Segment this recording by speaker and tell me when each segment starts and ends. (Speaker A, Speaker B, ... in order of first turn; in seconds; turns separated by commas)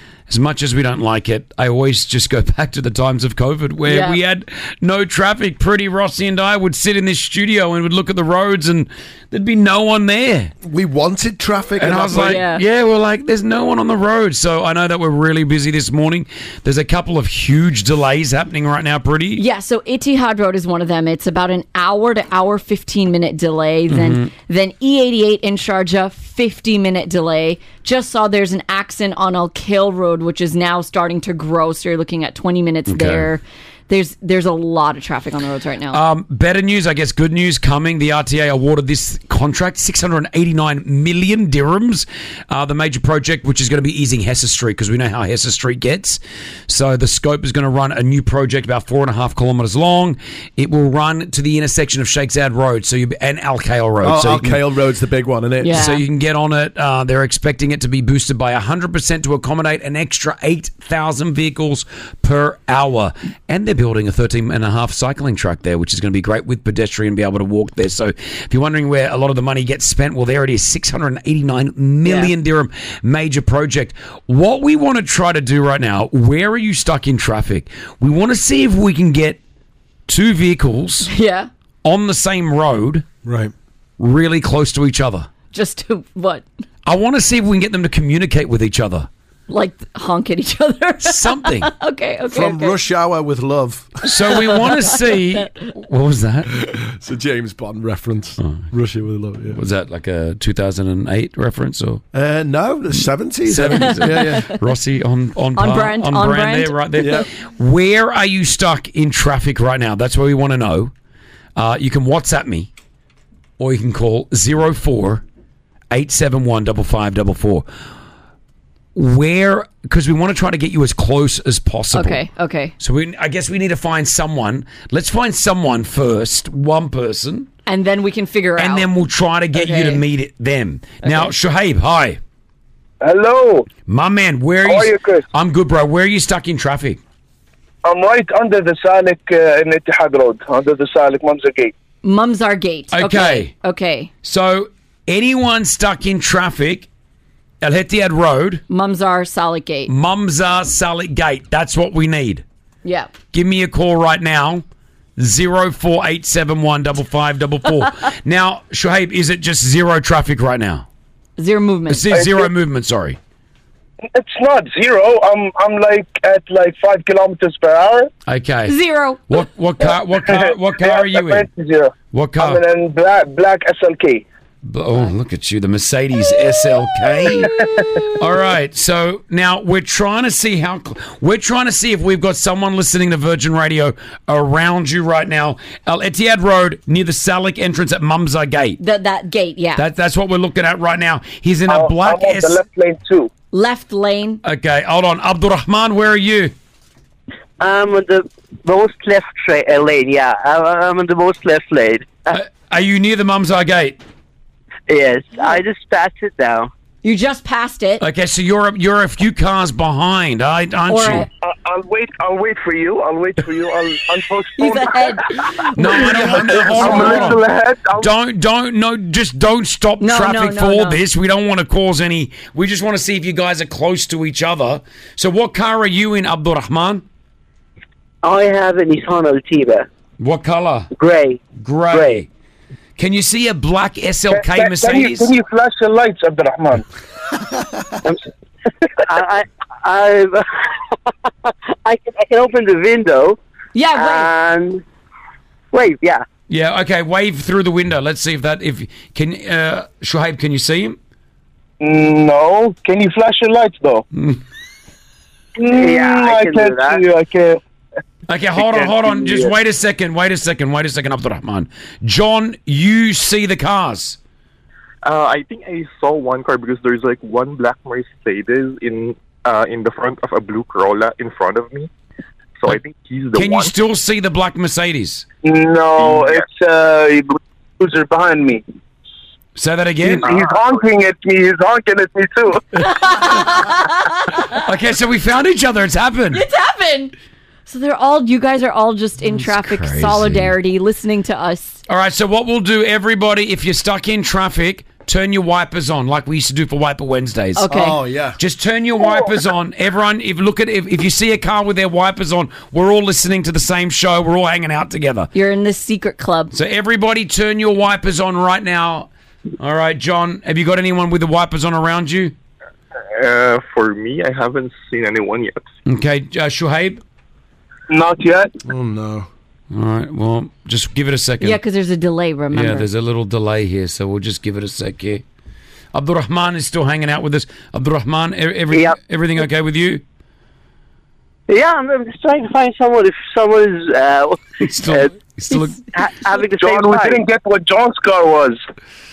Speaker A: 0.3-10.5, Speaker B: 3.9-4.2, Speaker C: 10.6-12.4, Speaker A: 11.8-19.4, Speaker B: 12.1-12.6, Speaker B: 19.4-36.0, Speaker A: 23.9-24.3, Speaker A: 32.9-33.3, Speaker A: 35.9-54.6, Speaker C: 54.0-55.8, Speaker B: 55.6-56.0, Speaker A: 55.7-79.4, Speaker B: 72.0-72.3, Speaker A: 80.1-81.1, Speaker B: 81.1-81.5, Speaker A: 81.8-83.0, Speaker C: 83.2-83.5, Speaker A: 84.0-85.3, Speaker B: 85.5-86.4, Speaker A: 86.8-89.1, Speaker B: 89.5-92.8, Speaker A: 91.0-91.7, Speaker C: 92.3-93.9, Speaker A: 94.0-96.5, Speaker B: 94.5-95.5, Speaker C: 96.6-99.6, Speaker A: 98.4-98.6, Speaker A: 99.5-102.0, Speaker C: 102.1-104.5, Speaker A: 103.5-110.9, Speaker B: 103.7-104.5, Speaker B: 105.6-106.8, Speaker C: 107.0-107.3, Speaker A: 111.5-112.7, Speaker A: 113.6-115.2, Speaker A: 115.9-117.7, Speaker A: 118.9-122.2, Speaker B: 121.9-122.7, Speaker A: 122.8-127.5, Speaker B: 127.7-128.9, Speaker A: 128.6-132.2, Speaker B: 129.6-130.0, Speaker B: 131.0-131.3, Speaker D: 133.0-133.7, Speaker A: 133.9-137.0, Speaker D: 134.6-135.2, Speaker D: 137.8-141.7, Speaker B: 142.0-144.1, Speaker A: 142.9-143.5, Speaker A: 144.2-146.9, Speaker A: 147.6-148.6, Speaker B: 148.7-149.9, Speaker A: 149.9-152.4, Speaker B: 152.8-153.1, Speaker A: 153.3-154.6, Speaker A: 155.2-160.9, Speaker B: 161.4-162.1, Speaker A: 161.9-163.2, Speaker D: 162.1-162.5, Speaker D: 164.1-168.1, Speaker A: 168.3-168.7, Speaker B: 168.7-169.2, Speaker A: 169.3-171.5, Speaker D: 170.2-174.2, Speaker A: 172.1-172.6, Speaker A: 174.6-177.5, Speaker D: 177.2-178.0, Speaker A: 178.2-188.8, Speaker B: 188.8-189.8, Speaker A: 189.8-192.6, Speaker D: 191.7-193.3, Speaker B: 193.5-194.4, Speaker A: 194.4-196.5, Speaker E: 197.6-202.3, Speaker A: 202.3-204.0, Speaker E: 204.9-206.7, Speaker B: 207.0-208.0, Speaker A: 208.0-211.3, Speaker B: 210.9-211.3, Speaker D: 211.4-218.1, Speaker B: 214.6-217.4, Speaker A: 215.8-217.4, Speaker A: 218.0-227.0, Speaker B: 220.0-221.0, Speaker E: 228.2-229.9, Speaker A: 230.2-230.9, Speaker E: 231.0-231.4, Speaker A: 231.6-232.3, Speaker E: 231.9-232.2, Speaker A: 233.0-235.3, Speaker D: 234.3-236.8, Speaker E: 239.0-240.7, Speaker E: 241.8-243.4, Speaker B: 243.7-244.3, Speaker E: 243.9-244.8, Speaker E: 245.7-246.2, Speaker A: 246.5-251.0, Speaker D: 251.8-254.0, Speaker A: 254.1-254.4, Speaker D: 255.6-257.6, Speaker E: 255.7-257.0, Speaker A: 258.3-264.2, Speaker D: 258.6-259.5, Speaker F: 265.0-271.9, Speaker F: 272.6-273.7, Speaker A: 273.3-275.3, Speaker D: 275.4-278.6, Speaker F: 276.0-276.4, Speaker A: 279.6-280.4, Speaker D: 280.0-282.6, Speaker F: 280.3-280.8, Speaker B: 282.8-284.6, Speaker A: 284.6-286.4, Speaker B: 286.3-287.1, Speaker B: 287.7-291.8, Speaker A: 289.2-290.5, Speaker A: 291.9-297.7, Speaker B: 297.6-298.0, Speaker C: 297.7-298.4, Speaker A: 298.4-305.3, Speaker B: 305.3-306.5, Speaker A: 306.5-309.1, Speaker A: 309.6-312.3, Speaker F: 313.2-315.6, Speaker A: 315.9-317.0, Speaker D: 317.9-318.5, Speaker C: 318.6-319.3, Speaker A: 319.7-321.6, Speaker B: 321.4-322.9, Speaker A: 322.5-325.2, Speaker A: 325.9-330.0, Speaker E: 331.5-335.1, Speaker A: 334.6-335.8, Speaker E: 335.9-337.2, Speaker D: 336.6-338.6